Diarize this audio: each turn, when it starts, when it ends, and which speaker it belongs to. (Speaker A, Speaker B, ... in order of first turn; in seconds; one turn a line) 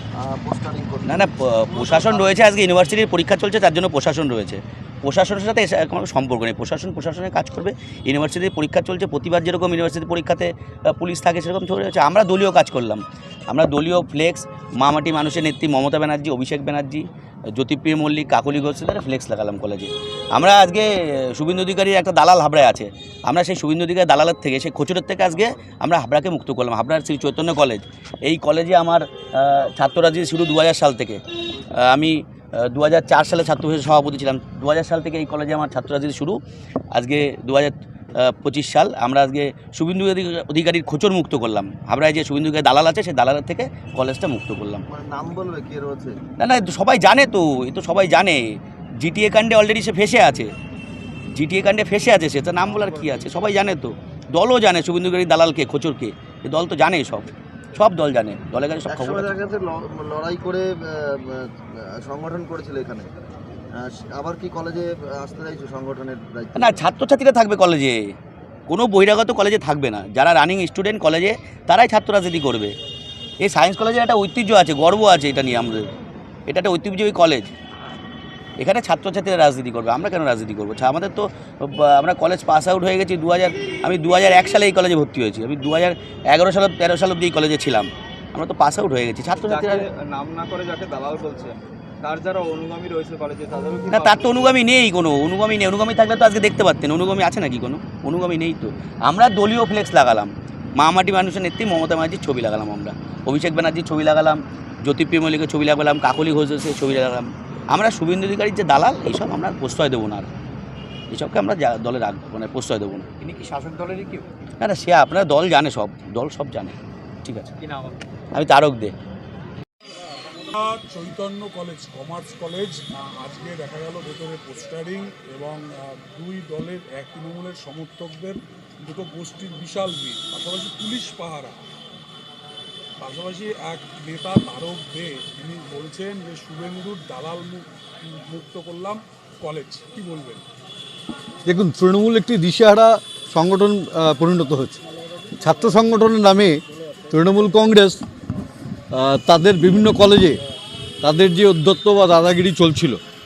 Speaker A: 0.2-2.4
Speaker B: 1.0-31.2
Speaker B: 31.7-36.4
Speaker B: 36.9-44.8
Speaker A: 44.9-46.2
Speaker B: 46.4-48.4
Speaker B: 49.0-50.5
Speaker B: 51.3-59.3
Speaker A: 58.9-63.1
Speaker A: 63.8-66.8
Speaker B: 66.5-68.1
Speaker B: 68.7-72.7
Speaker B: 73.4-75.9
Speaker B: 76.5-77.5
Speaker B: 78.6-89.9
Speaker C: 89.5-94.2
Speaker B: 93.9-110.3
Speaker B: 111.1-113.0
Speaker C: 113.6-114.0
Speaker B: 114.6-117.5
Speaker B: 118.3-118.9
Speaker D: 120.5-131.6
Speaker D: 133.0-140.4
Speaker E: 141.4-144.8
Speaker E: 145.4-146.6
Speaker E: 147.1-148.0
Speaker E: 148.9-150.4
Speaker E: 151.0-153.0